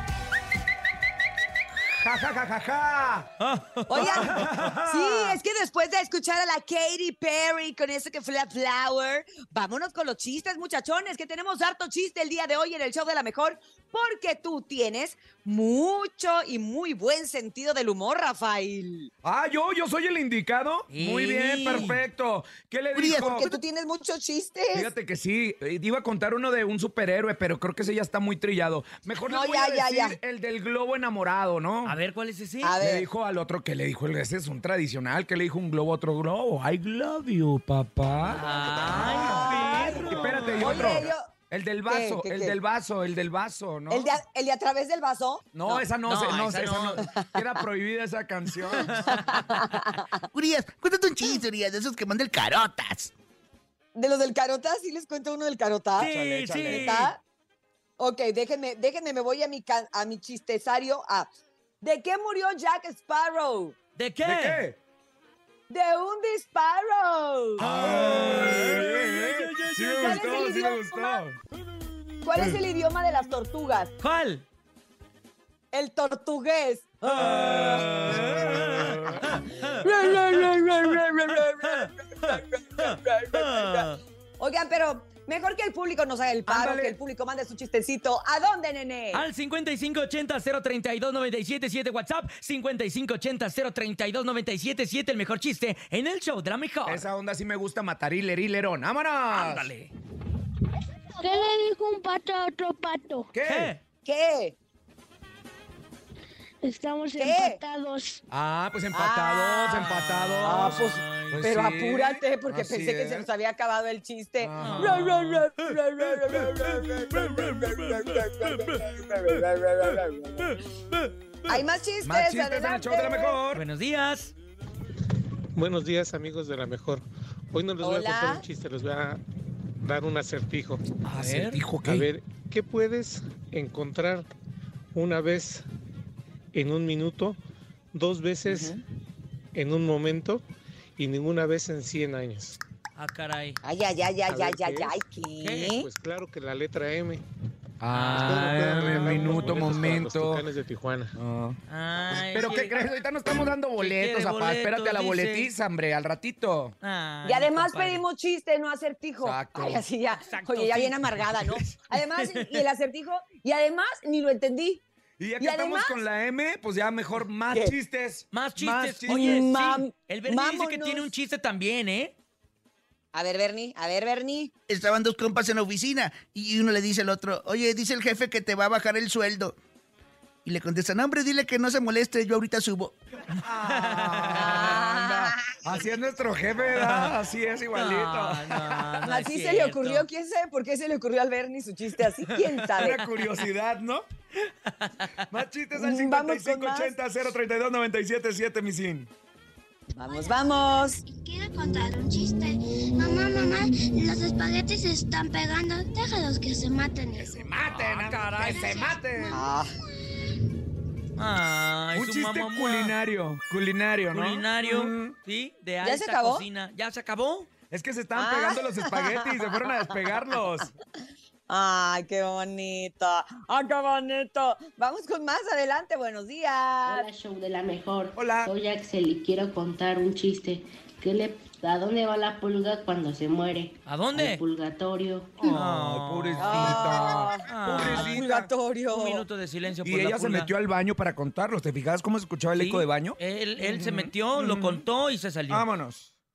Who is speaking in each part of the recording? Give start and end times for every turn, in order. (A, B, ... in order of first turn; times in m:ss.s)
0:02.0-0:03.3 A
0:03.4-0:04.4 B
0:03.9-0:19.1 C
0:04.0-0:05.4 A
0:19.2-0:23.5 A
0:20.9-0:22.0 B
0:22.9-0:23.6 D
0:23.1-0:24.9 C
0:24.7-0:32.0 A
0:29.2-0:30.2 C
0:31.8-0:32.8 B
0:32.6-0:33.1 C
0:32.8-0:44.2 A
0:38.3-0:41.0 B
0:38.9-0:41.3 C
0:41.9-0:42.6 C
0:43.9-0:45.8 C
0:45.5-0:49.0 A
0:46.0-0:47.0 B
0:47.0-0:47.4 C
0:48.7-0:49.4 B
0:48.9-0:50.0 C
0:50.3-0:53.1 D
0:53.9-0:56.1 C
0:56.0-0:57.1 A
0:56.0-0:57.1 B
0:56.6-0:57.2 C
0:58.0-1:01.3 C
1:01.8-1:03.8 C
1:04.0-1:04.6 B
1:04.2-1:04.8 A
1:05.7-1:08.2 C
1:07.6-1:10.4 B
1:07.6-1:11.4 A
1:10.0-1:11.2 C
1:12.2-1:13.9 C
1:12.3-1:12.6 A
1:14.0-1:14.4 B
1:15.7-1:18.0 C
1:17.0-1:24.0 B
1:17.1-1:19.4 A
1:18.3-1:18.8 E
1:19.3-1:29.2 C
1:26.5-1:27.0 A
1:29.1-1:37.1 B
1:36.8-1:39.7 A
1:39.3-1:39.9 B
1:41.2-1:43.3 F
1:43.3-1:43.7 A
1:43.4-1:43.8 B
1:44.0-1:44.6 C
1:46.6-1:48.2 F
1:47.2-1:47.6 C
1:48.3-1:53.3 A
1:48.9-1:49.8 C
1:49.7-1:51.5 B
1:50.4-2:00.6 C
1:54.4-1:55.1 A
1:54.6-1:55.5 B
1:57.2-1:57.6 B
2:01.5-2:03.4 C
2:02.0-2:03.6 A
2:03.5-2:04.3 B
2:05.5-2:09.2 E
2:07.8-2:08.4 C
2:09.8-2:10.8 E
2:11.0-2:12.1 A
2:11.1-2:11.6 B
2:11.8-2:14.3 E
2:14.9-2:15.6 E
2:16.5-2:17.4 E
2:17.9-2:18.8 E
2:18.5-2:18.8 C
2:19.5-2:20.4 E
2:21.0-2:22.6 E
2:22.9-2:23.6 B
2:23.6-2:25.9 C
2:24.3-2:25.0 E
2:25.4-2:25.7 B
2:25.8-2:27.2 E
2:27.8-2:30.4 A
2:27.9-2:29.3 B
2:28.2-2:31.2 E
2:31.2-2:31.6 A
2:31.7-2:32.9 B
2:32.3-2:36.7 A
2:33.8-2:35.5 B
2:36.8-2:38.0 B
2:37.2-2:44.8 C
2:39.2-2:39.8 A
2:40.1-2:41.6 B
2:42.1-2:42.6 B
2:45.2-2:49.4 A
2:45.4-2:46.0 C
2:47.5-2:47.8 C
2:48.3-2:52.1 B
2:49.1-2:51.1 C
2:53.1-2:54.5 C
2:54.7-2:59.6 D
3:00.4-3:02.9 D
3:03.3-3:09.1 A
3:03.7-3:04.7 B
3:04.3-3:05.8 C
3:06.7-3:07.2 B
3:07.7-3:10.0 B
3:09.0-3:13.0 C
3:12.3-3:13.0 B
3:12.8-3:14.0 A
3:14.6-3:15.1 B
3:15.3-3:19.1 A
3:15.7-3:17.0 C
3:19.9-3:21.0 C
3:20.1-3:27.3 F
3:27.1-3:29.4 A
3:27.6-3:28.7 B
3:28.6-3:29.4 F
3:29.3-3:29.7 C
3:31.2-3:32.9 B
3:31.9-3:35.2 A
3:34.1-3:37.5 B
3:35.8-3:36.5 C
3:37.7-3:40.7 A
3:38.1-3:40.0 C
3:41.5-3:47.1 C
3:46.8-3:55.4 G
3:48.2-3:48.5 A
3:53.8-3:54.4 B
3:55.4-3:58.5 A
3:55.5-3:58.2 B
3:56.4-3:59.2 C
3:58.9-4:00.5 B
3:59.8-4:04.8 A
4:02.6-4:05.7 B
4:05.5-4:06.1 A